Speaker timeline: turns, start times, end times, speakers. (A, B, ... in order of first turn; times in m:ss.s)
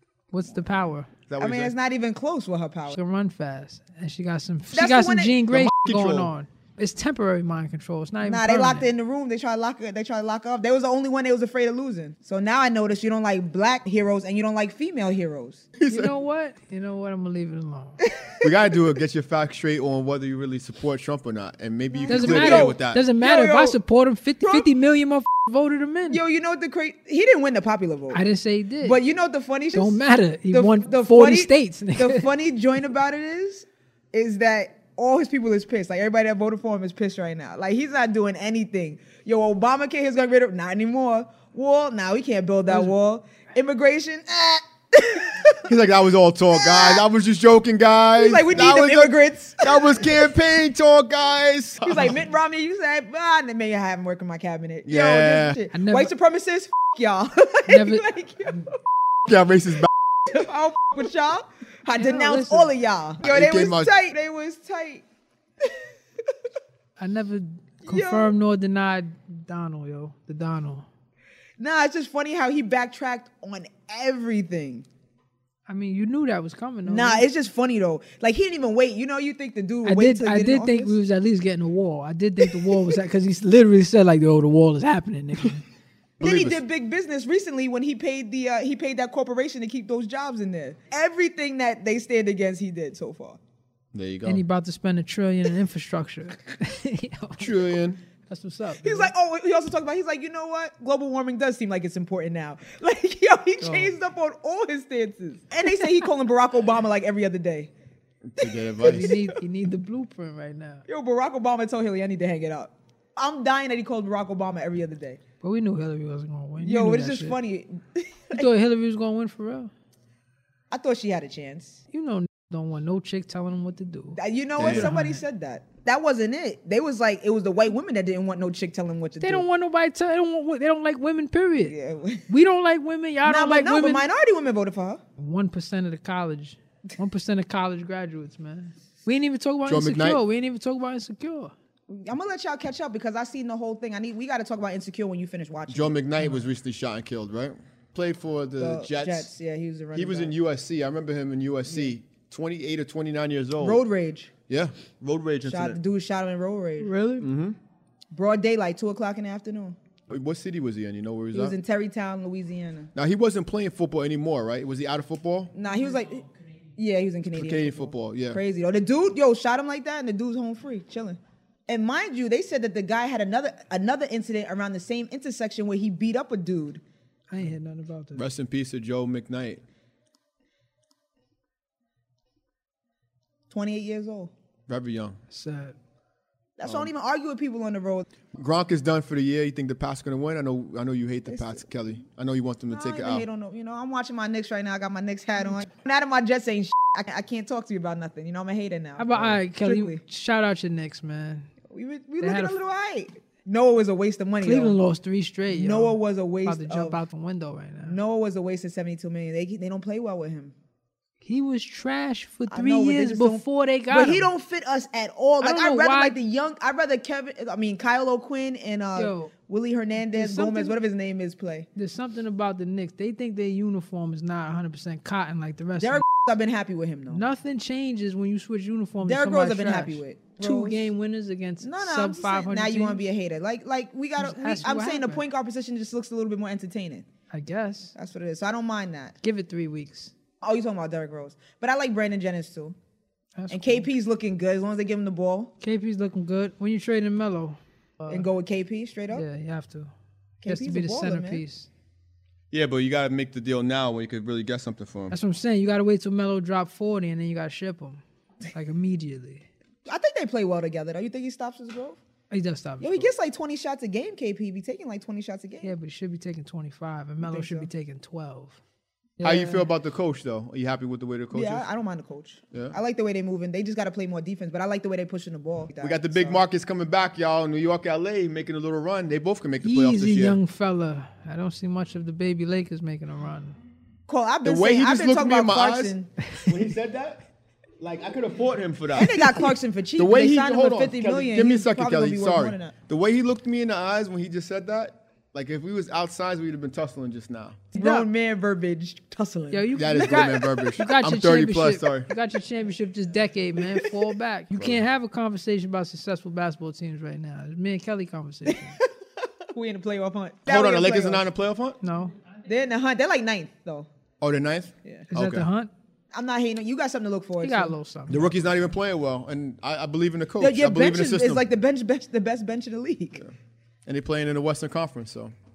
0:00.3-0:01.1 A
0:01.3-0:01.7 B
0:01.4-0:03.0 C
0:02.9-0:08.9 A
0:04.7-0:05.4 C
0:05.5-0:06.3 B
0:08.2-0:15.7 C
0:15.8-0:16.1 B
0:15.9-0:18.0 A
0:18.2-0:18.5 C
0:18.4-0:23.0 B
0:21.9-0:23.8 C
0:22.1-0:26.2 A
0:24.4-0:24.7 C
0:26.1-0:28.2 C
0:28.1-0:29.0 A
0:28.8-0:30.0 C
0:29.7-0:32.3 A
0:30.5-0:45.6 C
0:45.7-0:52.1 B
0:46.5-0:47.0 C
0:48.2-0:50.1 C
0:51.8-0:58.7 C
0:54.9-0:55.6 B
0:55.7-0:56.1 A
0:57.7-0:58.1 A
0:59.3-0:59.9 B
1:00.3-1:05.0 C
1:02.0-1:02.7 A
1:03.2-1:03.9 B
1:07.0-1:10.9 A
1:07.9-1:08.3 C
1:11.6-1:14.9 C
1:15.7-1:17.3 A
1:16.9-1:21.0 C
1:19.8-1:25.6 A
1:26.2-1:26.6 B
1:26.2-1:33.4 C
1:33.9-1:34.4 B
1:34.2-1:37.7 A
1:37.4-1:38.0 B
1:38.3-1:39.1 A
1:38.8-1:47.7 C
1:43.6-1:43.9 A
1:48.3-1:49.1 B
1:48.8-1:50.8 A
1:50.9-1:55.2 C
1:55.4-1:57.4 A
1:56.6-1:58.4 C
1:58.3-1:59.7 A
2:00.7-2:01.8 C
2:01.9-2:05.2 A
2:04.2-2:09.4 C
2:04.6-2:04.9 B
2:09.2-2:11.7 A
2:11.6-2:12.3 C
2:12.3-2:14.0 A
2:13.2-2:15.0 C
2:15.2-2:21.5 A
2:19.6-2:20.2 B
2:21.9-2:26.0 C
2:25.7-2:29.3 B
2:28.6-2:30.4 C
2:29.9-2:33.8 B
2:31.6-2:31.9 C
2:33.6-2:34.3 C
2:34.5-2:35.8 B
2:35.5-2:36.9 C
2:36.8-2:37.3 A
2:37.2-2:37.6 B
2:38.1-2:39.8 C
2:40.1-2:41.6 B
2:41.3-2:42.9 C
2:43.0-2:45.5 B
2:45.6-2:46.3 C
2:46.8-2:56.8 C
2:47.3-2:48.4 B
2:57.3-2:58.3 A
2:58.1-2:59.6 B
3:03.5-3:04.3 C
3:04.7-3:05.2 B
3:05.3-3:05.8 A
3:06.6-3:08.1 C
3:06.6-3:06.9 B
3:08.4-3:13.3 B
3:11.3-3:11.6 C
3:12.7-3:20.0 C
3:19.0-3:21.5 A
3:21.7-3:24.8 C
3:22.2-3:22.6 A
3:24.4-3:28.0 A
3:25.5-3:27.0 C
3:27.8-3:30.5 C
3:31.2-3:34.3 A
3:32.5-3:41.7 C
3:35.4-3:36.2 A
3:39.0-3:39.3 A
3:40.0-3:40.8 A
3:41.8-3:46.0 A
3:45.8-3:47.2 C
3:47.1-3:53.0 A
3:49.0-3:50.9 C
3:51.6-3:57.1 C
3:54.2-3:55.2 A
3:57.3-3:57.9 A
3:58.0-3:59.1 C
3:59.2-4:00.1 A
4:00.4-4:02.8 C
4:03.4-4:03.9 A
4:03.5-4:05.5 C
4:05.6-4:08.2 A
4:08.1-4:09.2 C
4:09.1-4:09.9 A
4:10.4-4:11.4 C
4:10.5-4:11.7 A
4:12.5-4:15.2 B
4:15.1-4:19.5 A
4:19.9-4:22.0 C
4:22.3-4:23.1 A
4:22.8-4:25.7 C
4:25.6-4:28.6 A
4:27.2-4:27.7 C
4:29.2-4:29.7 A
4:29.2-4:31.6 B
4:31.3-4:36.4 C
4:35.8-4:40.4 B
4:39.6-4:43.6 A
4:44.1-4:46.1 C
4:44.4-4:47.2 B
4:47.8-4:49.2 B
4:49.0-4:52.8 C
4:50.0-4:57.6 B
4:57.7-5:00.3 C
4:57.7-4:58.1 A
4:59.5-5:08.8 A
4:59.8-5:02.1 B
5:04.5-5:04.8 B
5:09.5-5:11.3 C
5:10.5-5:11.8 B
5:11.8-5:12.1 A
5:12.5-5:13.9 C
5:14.2-5:15.5 B
5:15.1-5:15.7 A
5:16.1-5:17.7 C
5:17.4-5:18.3 A
5:18.1-5:21.4 B
5:20.4-5:23.2 C
5:23.9-5:25.3 B